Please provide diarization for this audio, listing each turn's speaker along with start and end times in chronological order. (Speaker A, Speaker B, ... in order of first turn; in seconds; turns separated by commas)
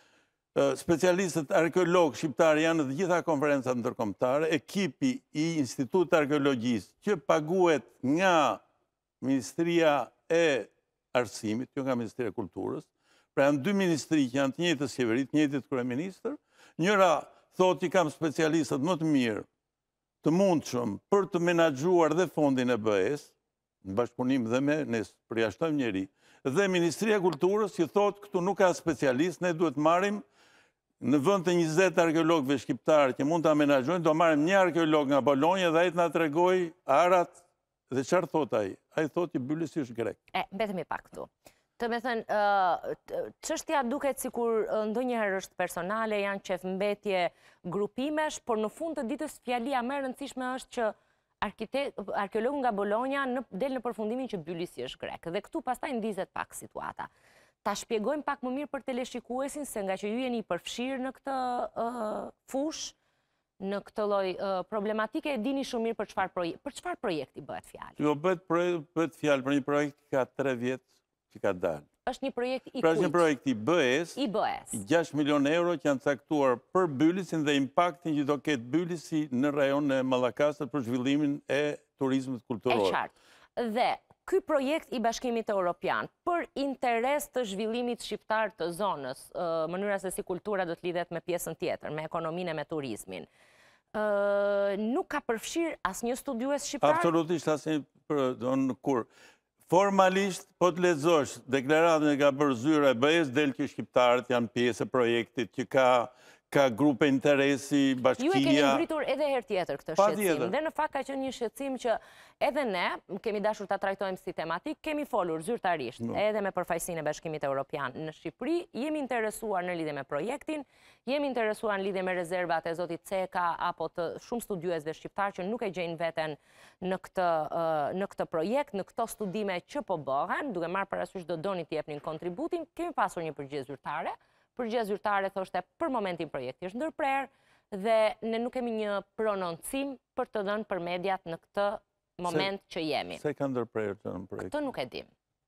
Speaker A: 0.6-8.6, Speaker A: 9.2-19.5, Speaker A: 20.2-30.2, Speaker A: 31.0-40.2, Speaker B: 40.3-57.1, Speaker B: 57.6-63.0, Speaker B: 63.6-68.0, Speaker A: 68.0-71.9, Speaker B: 72.1-73.2, Speaker A: 72.8-74.2, Speaker B: 74.2-74.8, Speaker A: 74.7-83.0, Speaker B: 82.7-93.3, Speaker B: 93.9-97.1, Speaker A: 96.8-99.1, Speaker A: 99.7-108.8, Speaker B: 108.2-143.2, Speaker A: 110.0-110.5, Speaker A: 143.2-144.5, Speaker B: 144.4-145.1